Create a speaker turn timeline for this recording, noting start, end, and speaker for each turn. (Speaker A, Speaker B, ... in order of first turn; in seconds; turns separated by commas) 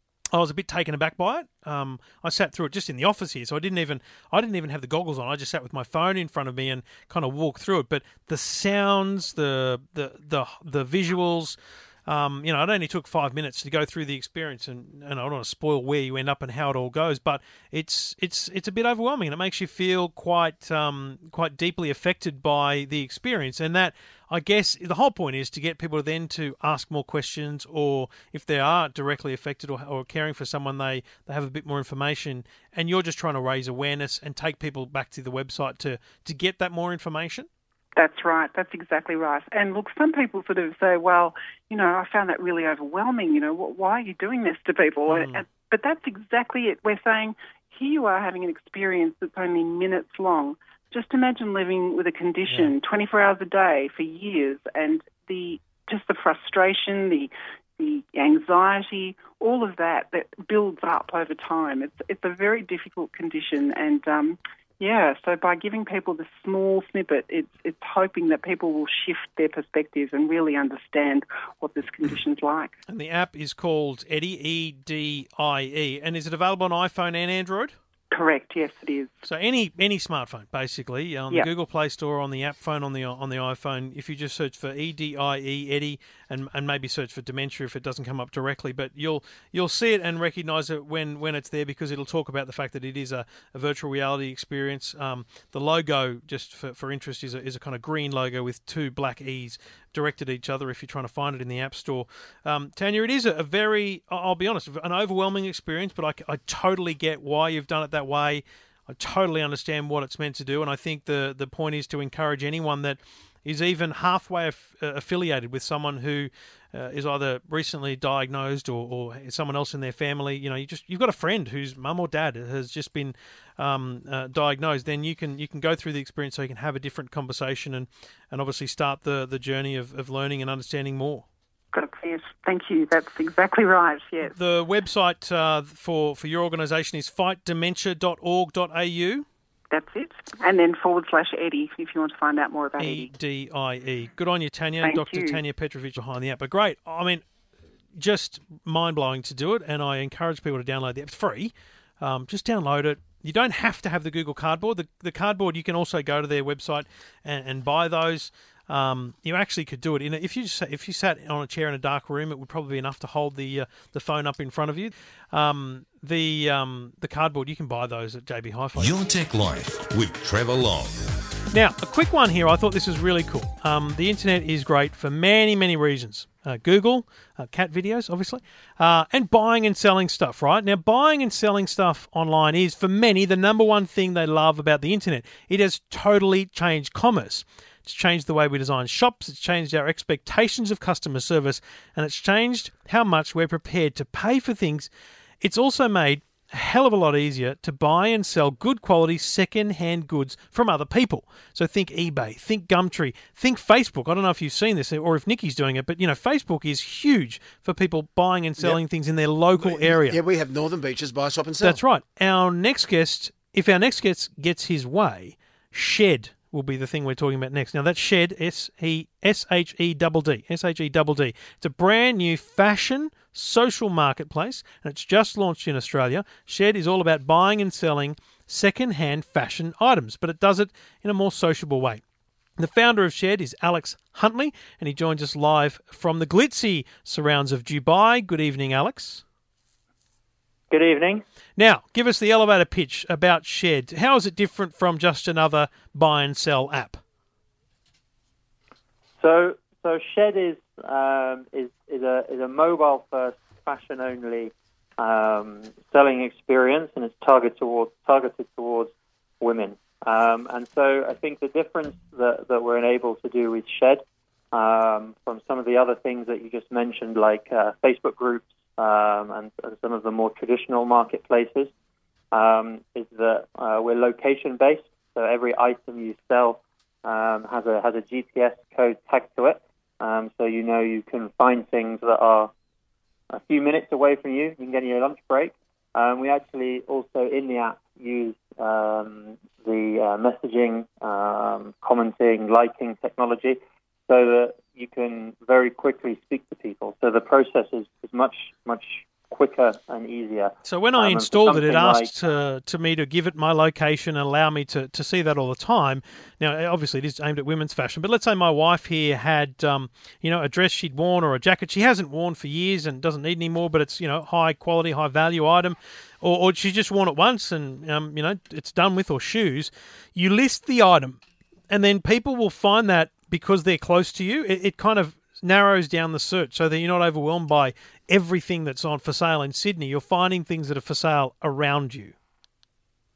Speaker A: 0.3-37.5, Speaker B: 38.0-72.7, Speaker A: 45.1-45.4, Speaker A: 52.5-52.7, Speaker A: 72.9-77.7, Speaker B: 78.1-79.1, Speaker A: 79.2-131.2, Speaker B: 131.7-134.3, Speaker A: 134.2-139.3, Speaker B: 139.7-143.1, Speaker A: 142.8-147.2, Speaker B: 144.8-145.4, Speaker A: 147.9-168.9, Speaker C: 168.8-171.1, Speaker A: 171.5-194.9, Speaker A: 195.4-210.2, Speaker D: 209.5-211.8, Speaker A: 211.6-232.0, Speaker A: 232.6-239.2, Speaker E: 240.7-241.2, Speaker A: 241.6-247.0, Speaker E: 249.2-271.7, Speaker E: 272.3-282.5, Speaker E: 283.3-302.1, Speaker A: 300.6-332.1